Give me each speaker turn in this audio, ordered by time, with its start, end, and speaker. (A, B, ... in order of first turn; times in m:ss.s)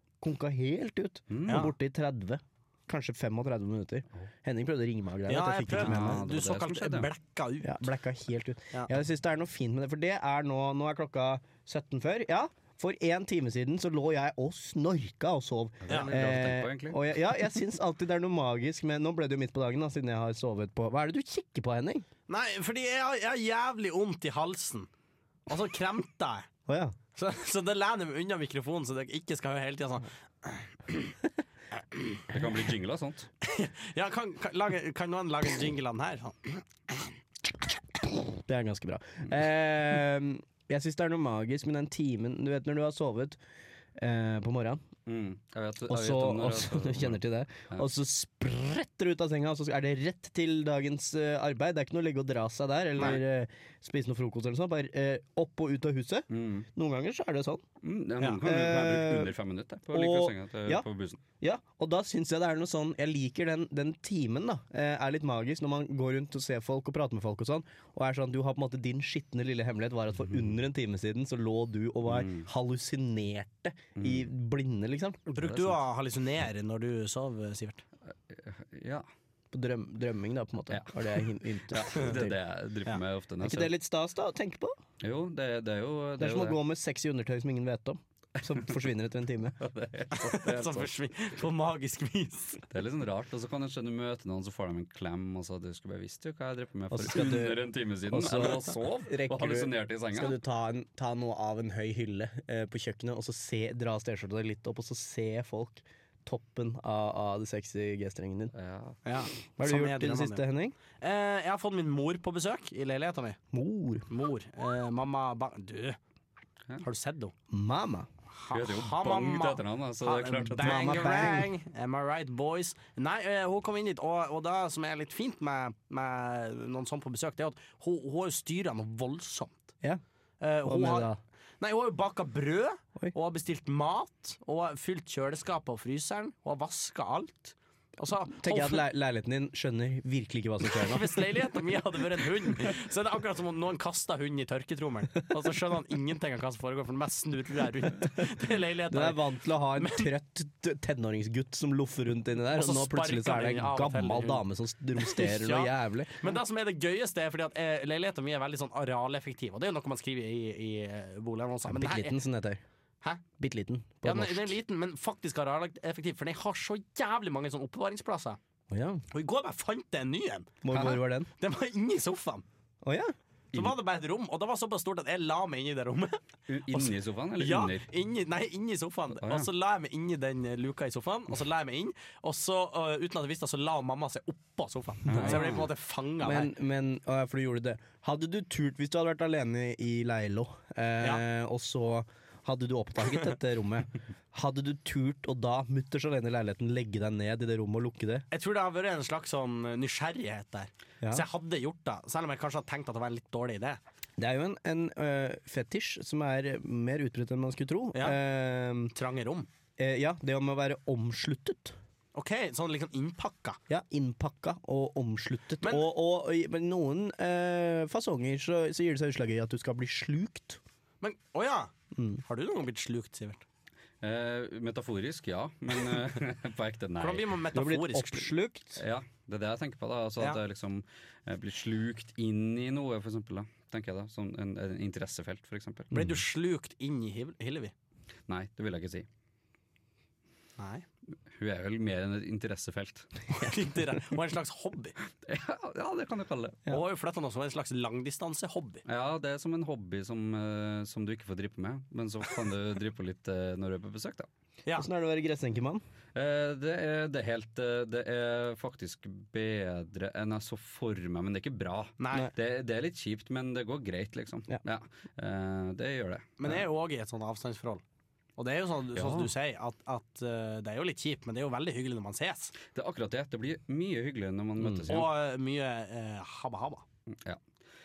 0:00.2-0:06.3 A
0:01.3-0:01.7 B
0:01.5-0:01.7 C
0:05.3-0:07.9 C
0:05.7-0:07.1 B
0:07.6-0:22.1 A
0:15.8-0:17.0 B
0:22.3-0:24.9 C
0:25.5-0:26.5 C
0:26.7-0:27.0 A
0:27.2-0:31.0 C
0:32.0-0:32.2 C
0:32.3-0:33.3 B
0:33.4-0:36.6 C
0:38.3-0:43.4 A
0:44.0-0:44.8 A
0:45.1-0:47.2 B
0:45.9-0:57.6 A
0:56.3-0:56.7 B
0:57.8-1:01.2 B
0:58.4-0:59.3 A
0:59.9-1:00.8 A
1:01.4-1:15.2 A
1:12.1-1:12.5 B
1:14.0-1:14.3 B
1:15.3-1:17.8 C
1:15.4-1:15.8 B
1:18.1-1:19.1 B
1:19.5-1:22.4 A
1:20.7-1:23.7 B
1:23.4-1:24.8 A
1:25.0-1:26.6 B
1:26.2-1:29.6 A
1:29.6-1:30.9 B
1:30.2-1:32.6 C
1:32.7-1:40.4 B
1:36.9-1:48.5 A
1:48.5-1:49.0 B
1:49.0-1:50.4 C
1:49.6-1:50.8 A
1:51.0-1:53.4 C
1:53.5-1:54.1 A
1:54.1-1:56.0 C
1:56.8-1:57.3 C
1:57.5-1:58.1 A
1:58.4-2:09.7 C
1:58.5-2:01.4 B
2:00.6-2:01.5 A
2:10.4-2:11.1 C
2:10.7-2:11.2 A
2:11.6-2:18.8 C
2:18.4-2:21.2 A
2:20.7-2:29.2 C
2:28.9-2:36.3 A
2:29.8-2:30.1 C
2:32.6-2:34.4 C
2:35.0-2:42.2 C
2:41.7-2:42.6 A
2:43.4-2:44.6 A
2:44.0-2:48.4 C
2:48.7-2:49.0 A
2:49.1-2:52.4 C
2:50.6-2:51.3 A
2:52.8-2:53.1 A
2:53.5-3:06.5 C
2:56.5-2:57.9 B
2:59.2-2:59.5 B
3:05.1-3:05.7 B
3:05.1-3:05.5 A
3:06.2-3:18.3 A
3:18.3-3:23.8 C
3:24.2-3:28.9 A
3:28.9-3:29.5 C
3:29.8-3:31.8 A
3:32.2-3:33.6 C
3:33.7-3:40.6 A
3:41.0-3:41.7 C
3:41.9-3:42.2 A
3:42.2-3:43.4 C
3:44.0-3:47.3 B
3:47.0-3:48.3 C
3:47.5-3:48.8 A
3:48.8-3:55.9 B
3:55.9-3:56.2 A
3:55.9-3:57.7 C
3:58.3-3:59.1 B
4:00.6-4:00.8 C
4:01.3-4:03.1 B
4:03.4-4:05.0 C
4:05.2-4:06.6 B
4:06.7-4:08.8 C
4:08.9-4:14.3 B
4:14.8-4:15.8 A
4:16.2-4:26.4 B
4:22.0-4:22.3 C
4:26.4-4:27.8 C
4:28.4-4:32.6 C
4:29.0-4:29.3 B
4:32.7-4:35.1 B
4:34.6-4:35.0 A
4:34.9-4:36.8 C
4:37.1-4:37.4 B